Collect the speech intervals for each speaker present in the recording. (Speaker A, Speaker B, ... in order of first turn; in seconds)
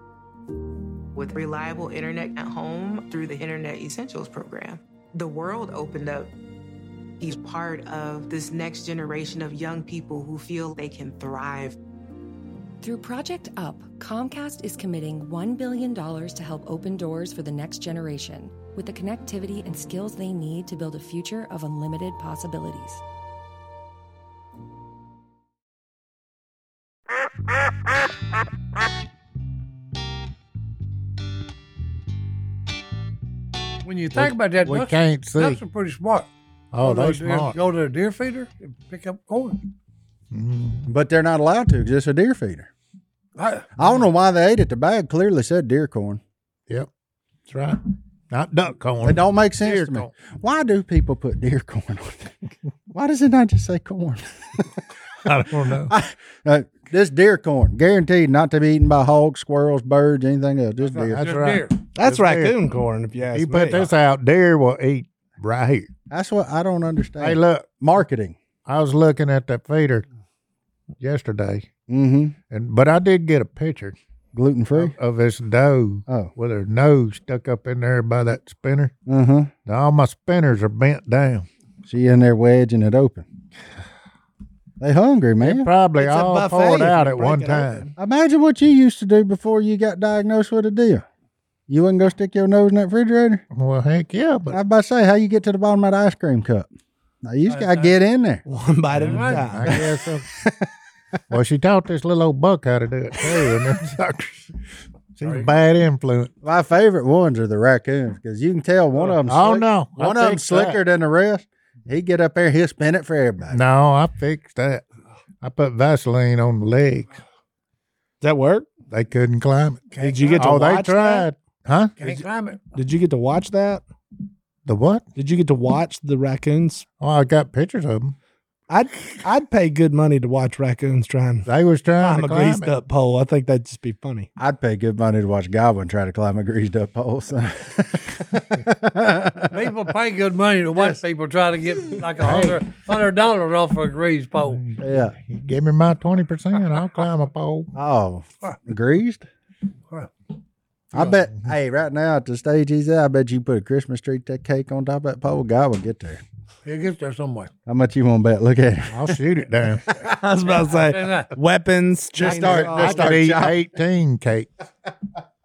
Speaker A: 1.1-6.3, 7.2-11.8
Speaker B: 12.8-23.0
Speaker C: 33.8-36.3, 36.8-39.6, 43.4-43.8, 61.2-61.8, 97.5-98.0, 99.0-99.5, 105.2-105.5, 119.9-120.4, 122.0-122.6, 139.5-144.6, 156.6-157.5, 160.9-161.3
Speaker D: 34.1-35.6, 36.7-37.5, 40.3-40.8, 47.5-50.1, 55.2-55.9, 61.0-62.5, 63.3-65.9, 67.2-67.7, 68.7-70.0, 71.0-71.7, 72.5-74.0, 74.7-78.9, 79.7-81.5, 85.4-87.8, 93.5-94.6, 99.0-100.2, 101.3-104.5, 105.2-106.3, 109.2-110.8, 113.5-114.8, 115.4-117.2, 118.9-121.9, 124.7-125.0, 127.0-128.2, 131.4-132.7, 142.2-142.6, 144.5-147.7, 151.0-151.4, 158.9-159.9, 162.2-164.5
Speaker E: 40.9-42.7, 43.8-46.2, 49.0-52.4, 52.9-54.8, 55.7-61.3, 66.1-68.3, 71.9-72.3, 74.3-74.9, 79.1-79.5, 81.8-83.2, 84.8-85.7, 88.0-91.0, 91.7-93.4, 94.5-96.7, 97.2-98.4, 99.7-100.7, 106.4-113.6, 134.4-139.7, 144.8-145.2, 147.7-149.2, 150.9-156.2, 157.7-159.2, 159.9-160.1, 162.2-163.6
Speaker F: 61.9-63.9, 86.0-87.9, 98.5-99.9, 118.2-118.7, 120.0-121.3, 122.7-123.8, 125.2-126.8, 128.7-131.5, 132.0-134.3, 160.0-163.1